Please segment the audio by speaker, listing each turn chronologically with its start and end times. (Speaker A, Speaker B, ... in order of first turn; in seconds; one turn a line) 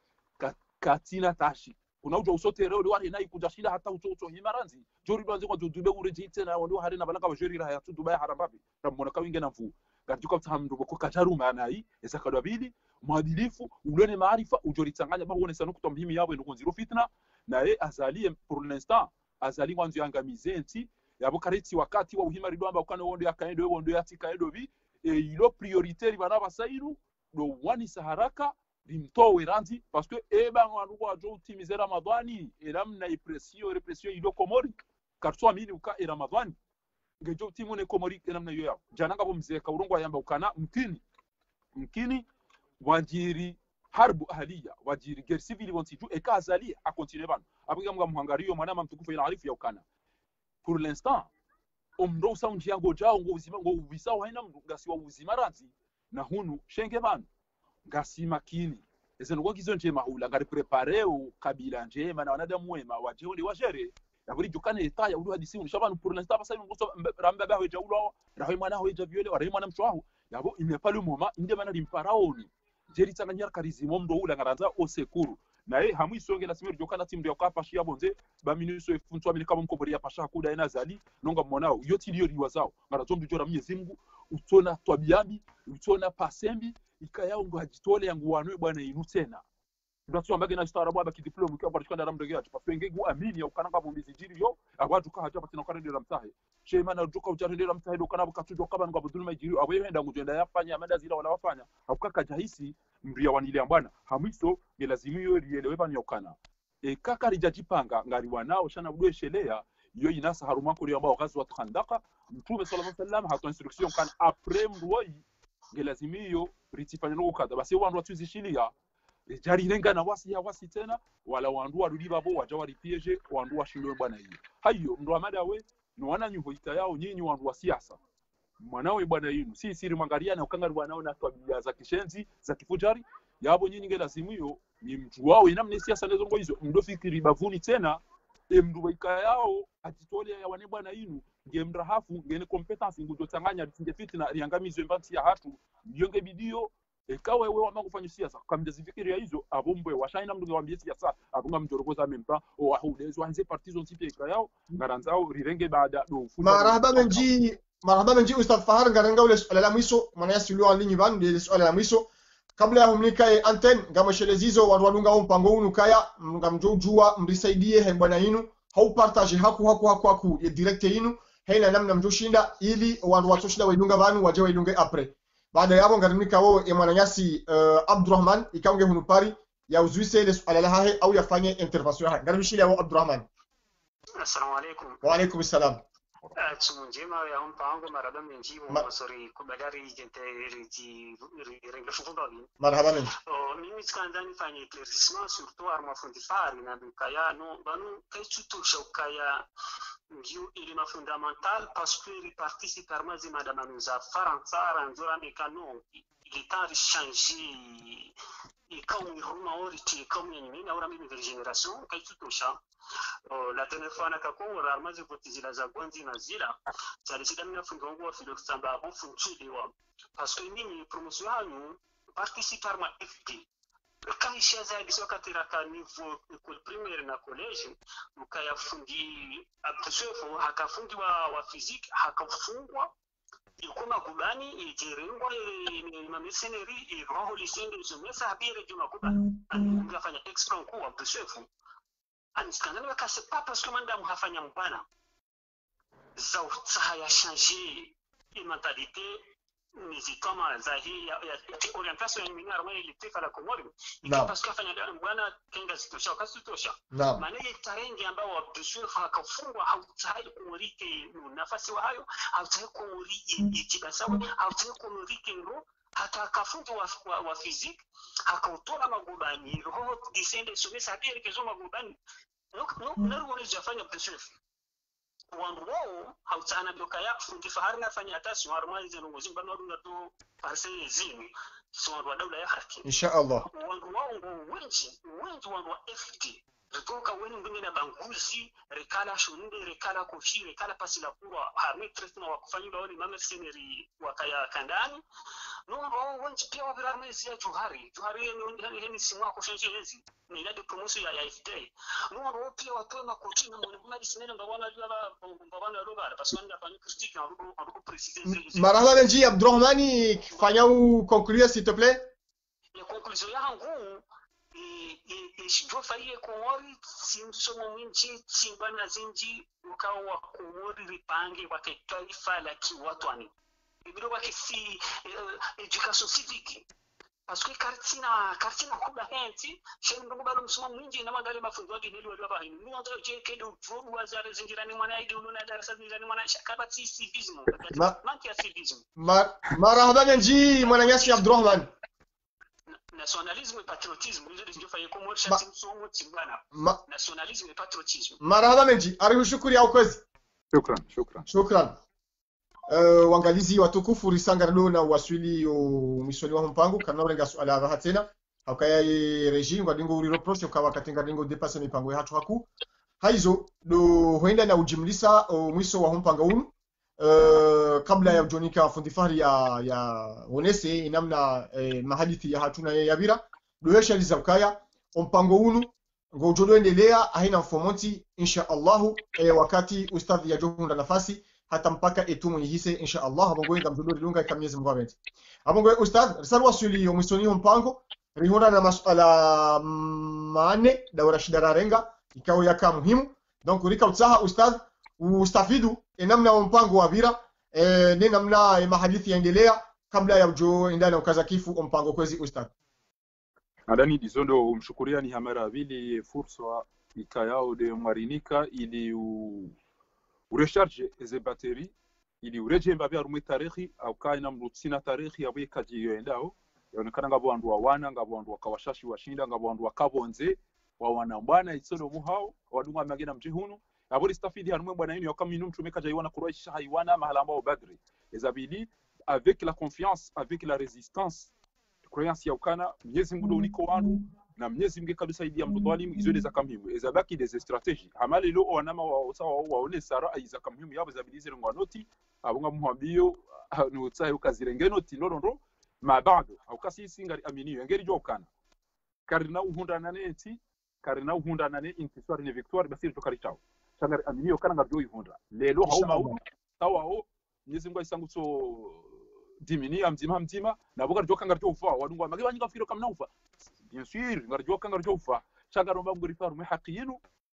Speaker A: 0.4-36.6
Speaker A: 37.2-41.0
Speaker A: 41.8-42.3
Speaker A: 42.8-49.8
Speaker A: 50.6-51.3
Speaker A: 52.0-57.3
Speaker A: 57.9-89.4
Speaker A: 90.1-118.7
Speaker A: 119.3-128.0
Speaker A: 128.6-157.3
Speaker B: 156.4-183.3
Speaker C: 184.2-185.0
Speaker B: 185.0-185.8
Speaker C: 186.4-192.5
Speaker B: 192.6-193.1
Speaker C: 193.3-199.4
Speaker C: 200.1-208.1
Speaker C: 208.7-212.6
Speaker C: 213.3-223.5
Speaker C: 224.1-232.9
Speaker C: 233.6-241.5
Speaker C: 242.4-244.9
Speaker C: 246.2-249.2
Speaker C: 249.8-272.0
Speaker B: 254.1-254.3
Speaker B: 256.9-257.2
Speaker C: 272.5-274.3
Speaker C: 275.3-282.9
Speaker B: 282.8-283.5
Speaker C: 283.4-295.0
Speaker C: 295.7-309.0
Speaker B: 308.3-312.1
Speaker C: 312.8-314.0
Speaker C: 314.5-323.3
Speaker C: 323.9-326.7
Speaker C: 327.3-338.9
Speaker B: 337.7-338.0
Speaker B: 339.0-341.7
Speaker C: 340.2-341.7
Speaker C: 342.7-348.2
Speaker B: 346.6-346.8
Speaker B: 348.2-350.0
Speaker A: 350.5-351.3
Speaker B: 351.3-351.8
Speaker B: 352.7-362.5
Speaker B: 363.0-402.5
Speaker A: 403.7-409.6
Speaker A: 410.3-431.3
Speaker A: 431.9-448.3
Speaker A: 449.1-463.1
Speaker B: 455.7-456.2
Speaker A: 463.6-467.0